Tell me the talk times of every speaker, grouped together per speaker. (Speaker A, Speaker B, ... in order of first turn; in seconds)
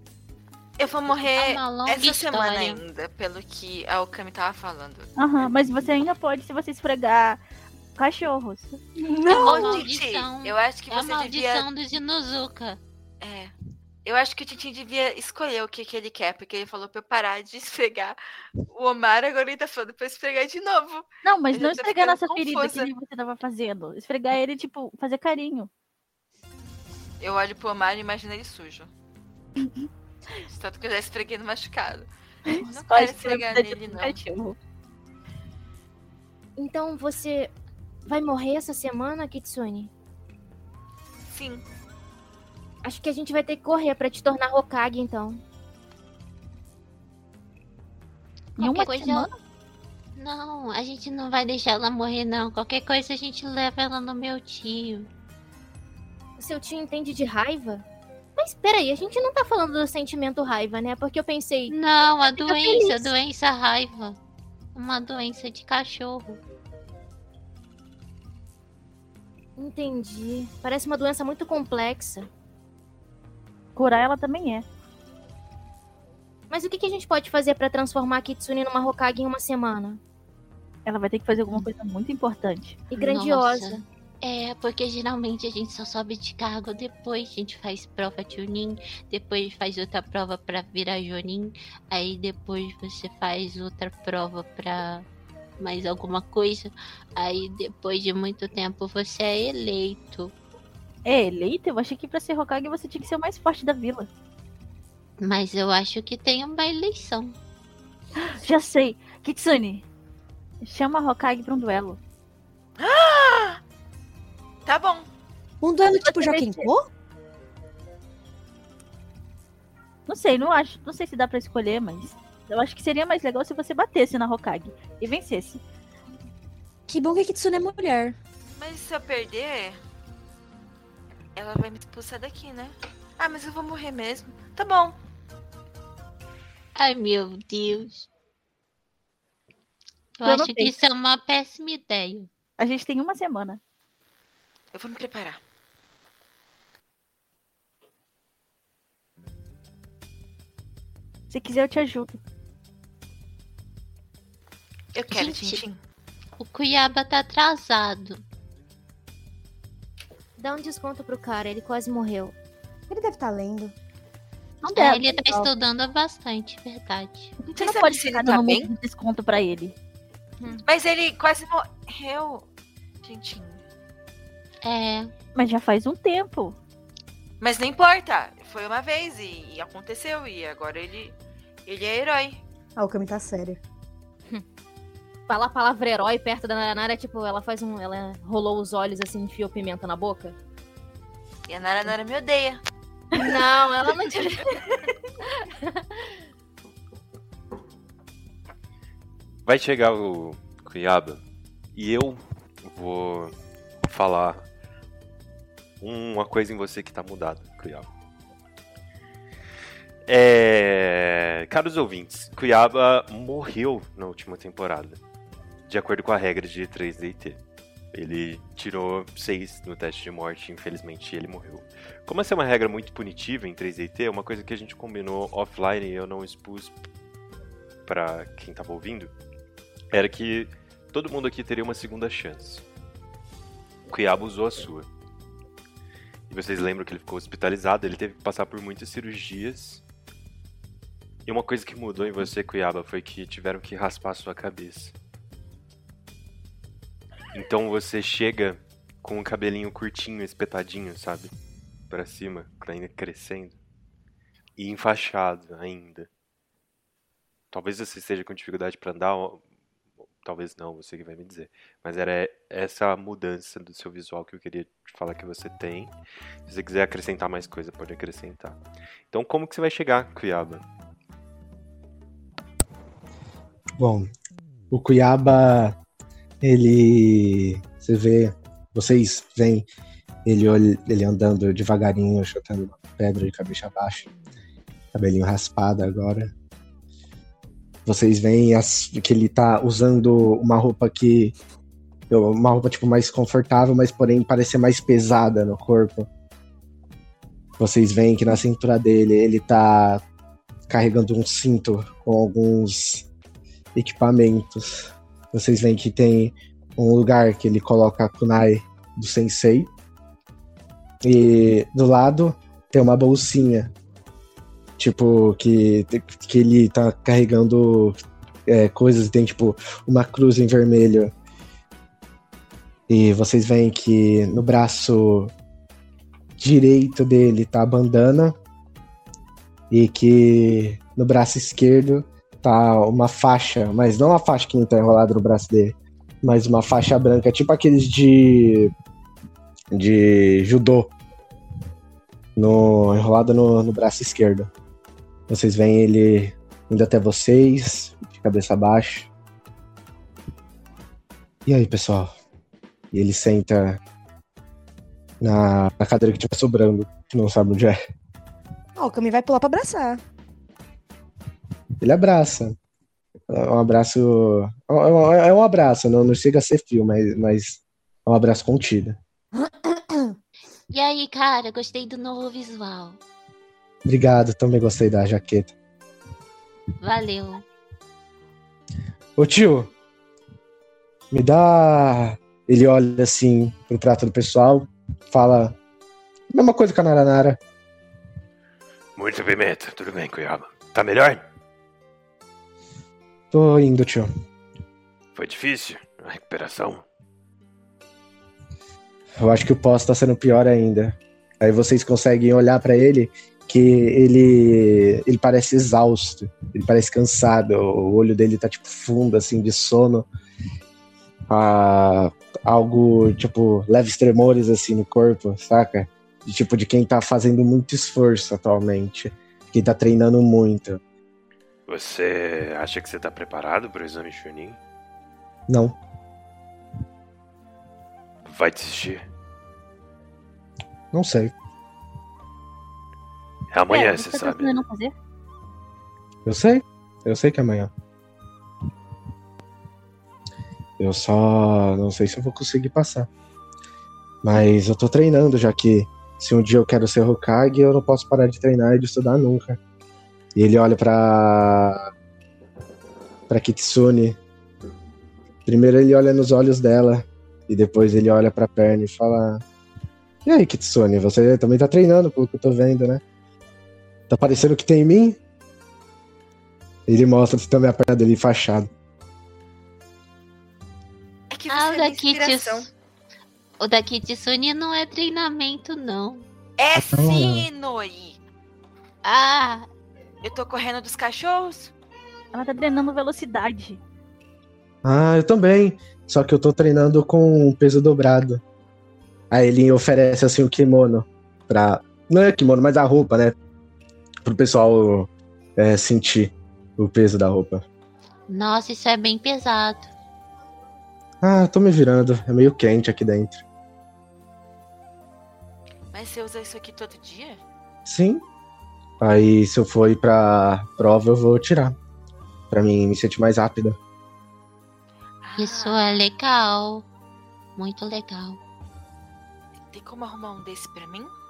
Speaker A: 0.8-5.1, 9.4-11.7, 13.2-13.5, 14.0-22.9, 27.2-28.9, 30.5-34.2, 41.2-41.6, 112.8-113.6, 114.7-115.1, 128.5-129.8, 131.3-134.9, 144.7-145.4, 154.9-155.8, 167.5-168.7, 170.6-172.4, 173.0-173.6, 177.4-181.1, 181.7-182.4, 191.5-192.6, 471.3-472.7, 476.6-478.2, 480.2-481.7, 505.9-507.4, 515.2-516.0, 519.7-521.1
Speaker B: 1.1-2.8, 9.3-12.8, 48.6-49.3, 50.1-55.1, 61.7-64.2, 64.7-66.4, 83.0-95.0, 95.6-100.3, 105.2-107.3, 136.8-138.1, 140.2-142.3, 156.4-158.2, 164.7-167.3, 174.6-175.1, 370.7-373.0, 376.8-377.4, 471.5-472.7, 473.6-476.2, 479.0-479.7, 498.3-499.9, 515.4-516.9, 517.5-518.4
Speaker C: 5.2-7.4, 8.0-8.8, 21.2-25.7, 29.6-29.9, 32.5-34.6, 48.6-49.3, 73.8-74.7, 80.8-82.8, 101.0-104.1, 108.2-109.8, 110.6-112.0, 116.0-116.7, 120.1-125.6, 140.2-140.8, 142.6-143.6, 151.3-152.2, 164.6-165.5, 167.4-169.7, 175.3-176.6, 433.7-434.9, 482.3-483.8
Speaker D: 9.0-9.8, 115.6-116.9, 126.9-128.2, 162.9-163.7, 182.8-183.6, 358.8-360.0, 369.3-370.1
Speaker E: 36.6-37.5, 38.0-39.9, 42.8-45.4, 56.4-57.9, 58.4-61.7, 62.2-63.1, 69.6-72.3, 76.5-80.0, 82.9-83.8, 160.4-162.3, 185.3-190.3, 193.1-194.8, 195.4-196.0
Speaker F: 199.4-201.2, 201.7-204.4, 205.8-207.9, 210.1-215.0, 215.7-217.4, 217.9-226.8, 227.8-229.1, 229.9-232.6, 233.9-234.9, 236.3-239.8, 241.2-244.9, 247.3-251.3, 251.9-253.6, 254.6-256.1, 257.5-259.4, 260.2-265.9, 266.4-270.6, 388.9-391.2, 395.1-396.8, 421.7-424.6, 428.2-429.1, 433.5-434.6
Speaker G: 273.8-274.1, 274.7-275.8, 276.4-279.7, 280.2-284.1, 284.9-286.3, 287.9-291.3, 292.1-296.1, 297.6-300.0, 300.7-303.1, 303.7-309.7, 311.0-313.7, 314.8-317.9, 318.5-321.1, 322.9-325.3, 326.4-328.3, 329.7-338.7, 339.7-340.9, 342.4-344.5, 345.3-349.1, 351.4-352.1, 352.9-353.8, 355.2-357.8, 361.8-362.6, 363.3-369.0, 373.8-375.5, 379.2-379.7, 381.1-385.6, 386.3-387.4, 393.3-394.1, 399.2-410.1, 411.3-420.8, 425.5-425.8, 430.9-431.3, 436.2-437.7, 440.8-443.1, 444.2-449.6, 450.3-451.8, 453.3-454.2, 455.4-459.4, 460.2-463.0, 464.1-465.2, 466.9-468.7, 476.7-477.5, 484.8-488.4, 489.3-493.4, 494.2-497.6, 501.2-503.4, 507.9-508.2, 509.0-511.8, 512.5-513.8